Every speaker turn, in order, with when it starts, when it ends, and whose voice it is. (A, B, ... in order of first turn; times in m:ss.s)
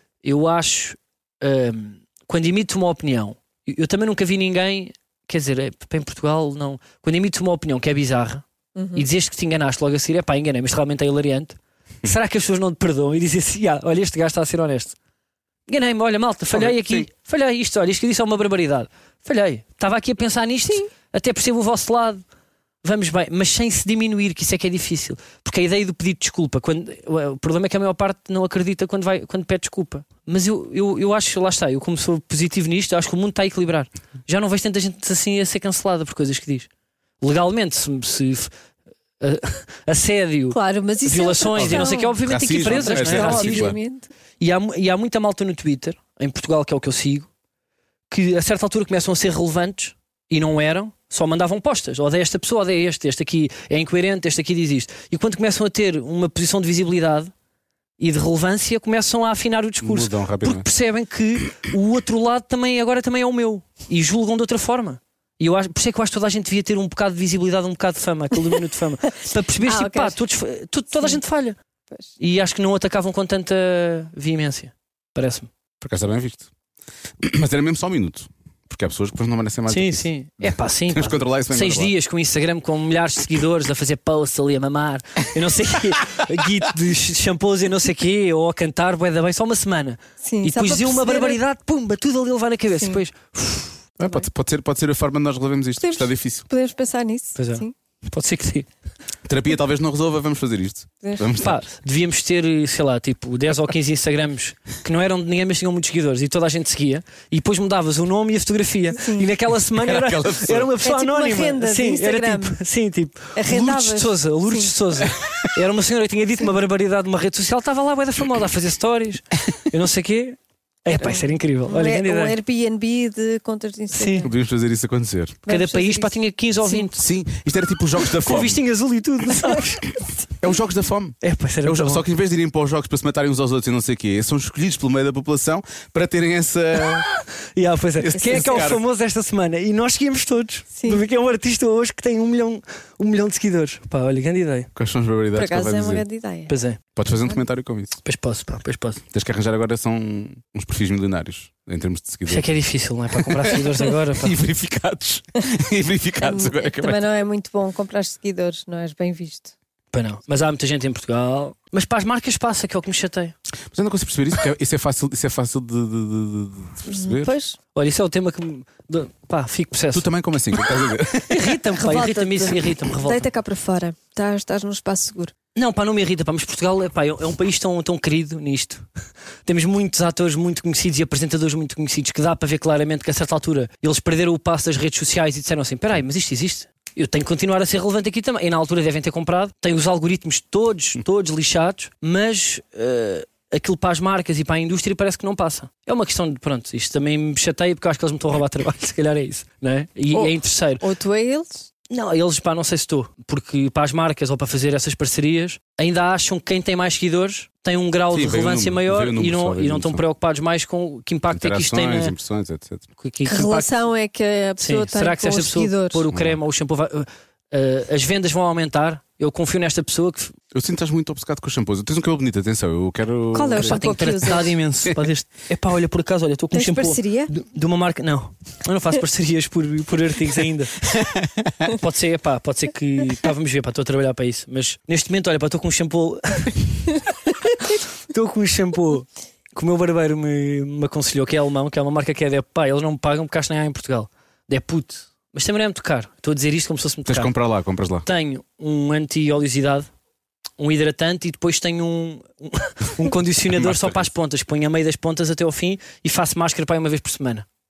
0:00.2-0:15.0 A
0:08.8-0:09.0 B
0:15.7-0:22.2 A
0:16.5-0:17.1 C
0:22.8-0:36.7 A
0:37.2-0:38.5 A
0:39.2-0:43.7 A
0:40.5-0:44.1 B
0:41.6-0:43.8 C
0:44.4-0:47.3 A
0:48.1-0:57.3 A
0:58.0-1:11.6 A
0:59.8-1:00.6 C
1:09.6-1:10.2 B
1:12.2-1:15.5 A
1:15.8-1:16.5 C
1:17.2-1:21.9 C
1:19.7-1:33.8 A
1:30.2-1:31.4 B
1:34.0-1:36.4 C
1:35.8-1:37.7 B
1:37.4-1:38.7 A
1:39.2-1:41.6 C
1:41.0-1:41.3 B
1:41.4-2:02.4 A
1:49.0-1:49.3 B
1:49.7-1:50.7 C
1:50.8-1:52.6 B
1:53.3-1:54.7 B
2:00.9-2:04.3 B
2:03.9-2:04.3 A
2:04.2-2:05.4 C
2:05.4-2:06.9 B
2:05.5-2:07.0 A
2:07.0-2:08.6 C
2:08.2-2:09.9 A
2:10.4-2:17.1 C
2:11.2-2:12.0 A
2:17.5-2:24.7 A
2:18.0-2:18.8 C
2:18.1-2:18.7 B
2:20.8-2:21.0 B
2:24.7-2:26.0 C
2:25.3-2:26.5 B
2:26.5-2:26.8 A
2:27.0-2:28.0 C
2:28.0-2:29.0 A
2:29.1-2:32.5 C
2:32.3-2:34.4 A
2:33.2-2:37.0 C
2:36.2-2:39.5 B
2:39.9-2:43.3 A
2:43.7-2:47.3 C
2:46.8-2:47.6 B
2:47.7-2:50.0 A
2:49.9-2:51.5 C
2:51.3-2:53.3 A
2:51.8-2:55.3 B
2:55.5-2:58.8 A
2:59.4-3:20.8 A
3:20.1-3:21.6 B
3:21.9-3:32.1 A
3:28.1-3:30.0 C
3:31.3-3:32.9 C
3:33.0-3:33.7 A
3:33.2-3:36.0 B
3:34.6-3:40.3 A
3:36.1-3:36.4 C
3:40.5-3:44.0 C
3:43.3-3:44.5 B
3:43.6-3:50.8 A
3:46.5-3:47.3 B
3:50.9-3:51.6 C
3:51.7-4:07.3 A
4:07.0-4:08.0 C
4:08.0-4:09.9 A
4:10.6-4:17.4 A
4:13.5-4:14.1 C